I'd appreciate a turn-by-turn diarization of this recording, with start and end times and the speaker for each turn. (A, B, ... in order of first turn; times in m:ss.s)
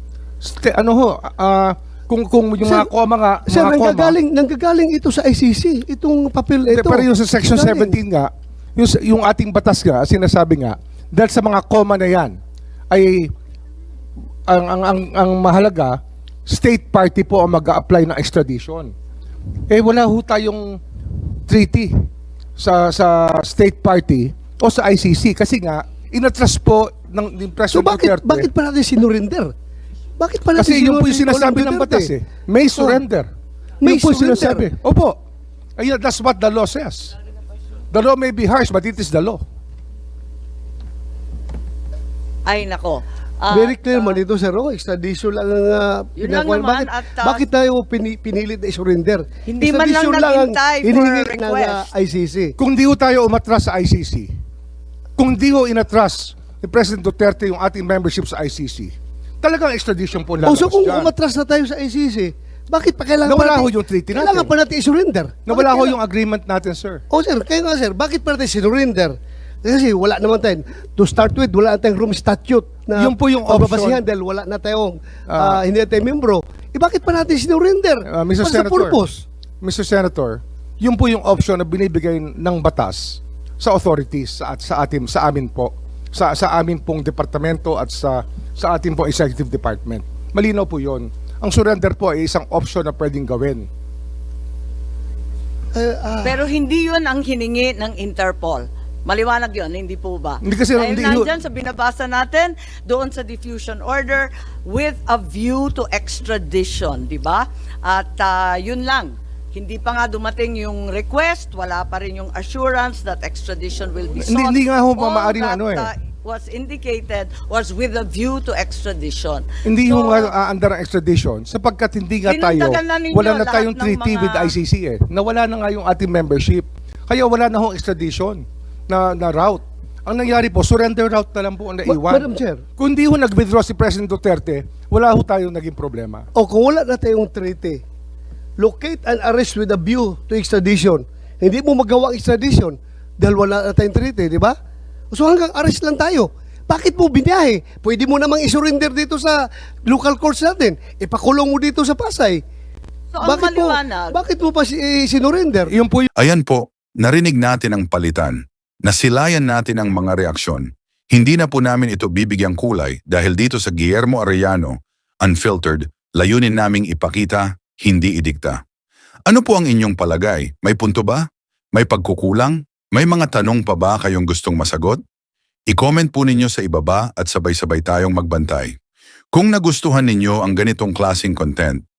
0:00.4-0:04.2 A
0:02.6-0:02.9 B
0:03.4-0:08.0 B
0:06.7-0:12.4 A
0:12.9-0:13.3 A
0:14.5-0:18.9 A
0:19.7-0:20.8 A
0:21.4-0:21.9 A
0:22.6-0:28.5 A
0:27.7-0:29.5 B
0:30.2-0:32.1 B
0:30.6-0:33.3 A
0:32.8-0:33.0 B
0:33.8-0:34.7 B
0:33.8-0:35.2 A
0:35.8-0:37.1 A
0:37.9-0:39.4 A
0:42.4-0:44.2 C
0:43.5-0:52.5 B
0:46.2-0:47.4 C
0:49.4-0:51.9 C
0:52.6-0:54.3 A
0:55.2-1:01.1 A
1:00.4-1:06.0 B
1:03.2-1:04.5 A
1:05.4-1:07.0 A
1:07.1-1:19.2 B
1:13.0-1:14.0 A
1:15.3-1:15.6 A
1:18.1-1:19.0 A
1:19.6-1:33.7 A
1:35.7-1:36.4 B
1:36.2-2:00.3 C
1:40.4-1:41.3 A
1:54.2-1:55.9 A
1:59.6-2:12.3 A
2:02.2-2:04.6 C
2:11.8-2:12.6 B
2:12.8-2:16.3 A
2:16.4-2:17.8 B
2:18.6-2:24.5 B
2:25.1-2:32.4 B
2:33.1-2:34.2 C
2:33.2-2:35.7 B
2:35.7-2:36.1 A
2:36.2-2:48.6 D
2:49.3-2:51.2 D
2:51.8-2:55.0 D
2:55.7-2:58.7 D
2:59.3-3:01.8 D